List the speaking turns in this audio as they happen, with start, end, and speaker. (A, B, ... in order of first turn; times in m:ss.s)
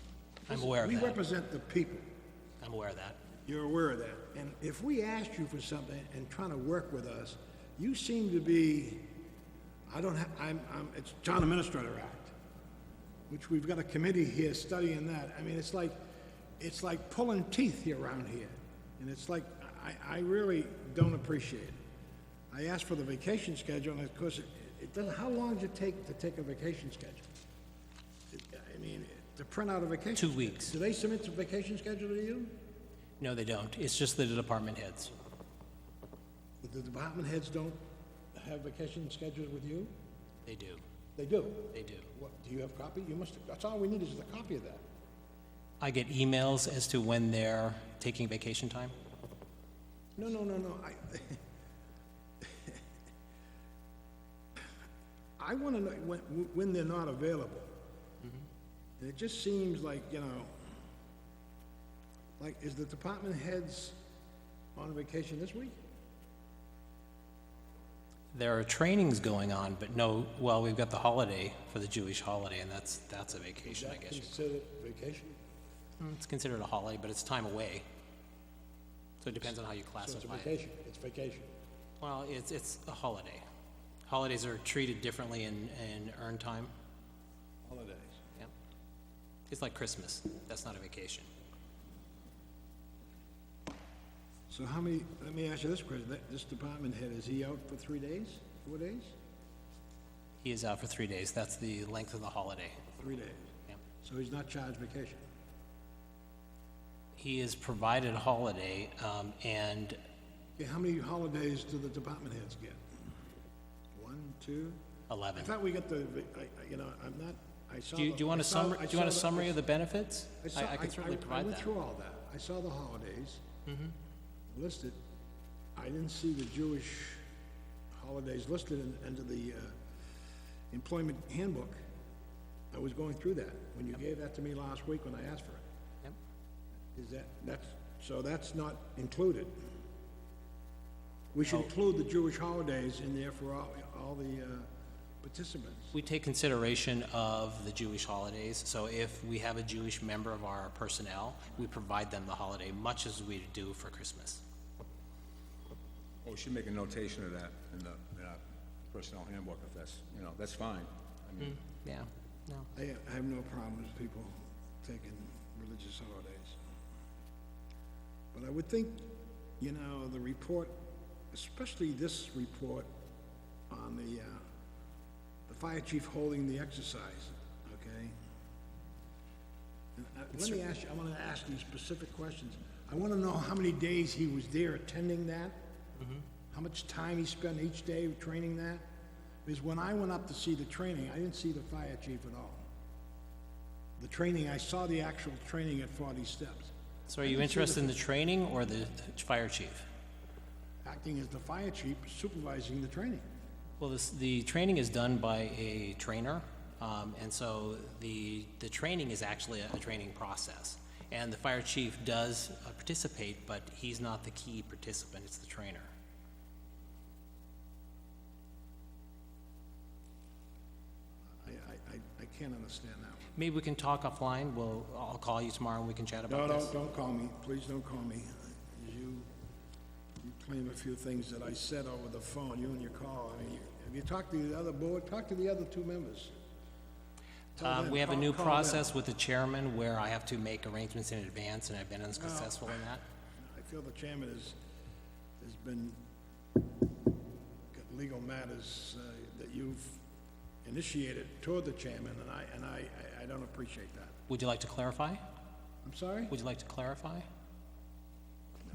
0:00.5-0:02.1 A
0:00.5-0:01.2 B
0:02.6-0:03.2 B
0:03.4-0:09.1 A
0:09.9-0:12.3 A
0:13.3-0:16.0 A
0:16.6-0:21.8 A
0:22.5-0:27.2 A
0:28.3-0:32.6 A
0:30.2-0:30.8 B
0:33.2-0:35.1 B
0:36.6-0:37.8 A
0:38.3-0:39.9 A
0:40.4-0:40.8 B
0:41.2-0:44.8 A
0:41.7-0:42.1 B
0:45.8-0:48.9 B
0:50.2-0:51.4 A
0:52.4-0:52.8 A
0:55.4-0:57.7 A
0:59.0-1:00.5 A
1:02.4-1:04.0 A
1:04.7-1:05.8 A
1:08.3-1:14.3 B
1:13.6-1:15.4 A
1:16.0-1:17.8 B
1:19.2-1:20.5 B
1:19.3-1:21.5 A
1:22.0-1:23.4 B
1:24.1-1:26.7 B
1:27.6-1:28.2 A
1:29.5-1:31.3 B
1:34.5-1:39.2 A
1:40.4-1:42.9 B
1:43.0-1:45.2 A
1:47.2-1:50.0 B
1:50.6-1:52.8 A
1:53.9-1:54.8 A
1:55.1-1:55.5 B
1:55.3-1:59.6 A
1:57.9-2:01.7 B
2:00.4-2:03.4 A
2:03.7-2:03.9 B
2:04.5-2:05.0 A
2:05.8-2:07.2 A
2:07.9-2:09.8 A
2:10.7-2:11.8 A
2:12.7-2:15.6 A
2:16.9-2:19.6 A
2:21.3-2:24.7 A
2:25.2-2:25.9 A
2:25.9-2:34.4 B
2:36.2-2:41.6 C
2:41.4-2:42.7 B
2:42.7-2:46.6 A
2:48.3-2:52.9 A
2:53.7-2:54.5 A
2:55.5-2:58.1 A
3:00.0-3:05.6 A
3:06.5-3:08.9 A
3:09.4-3:12.6 A
3:14.0-3:17.9 A
3:17.1-3:19.8 B
3:20.8-3:23.2 A
3:23.8-3:35.9 B
3:41.4-3:43.3 A
3:43.4-3:46.7 B
3:46.3-3:49.3 A
3:50.2-3:56.3 A
3:57.6-3:58.9 A
3:57.6-4:03.0 B
4:02.2-4:02.8 A
4:03.4-4:04.6 A
4:05.4-4:06.0 A
4:07.7-4:10.0 A
4:10.6-4:14.2 A
4:14.3-4:15.2 B
4:15.8-4:16.3 A
4:16.3-4:17.3 B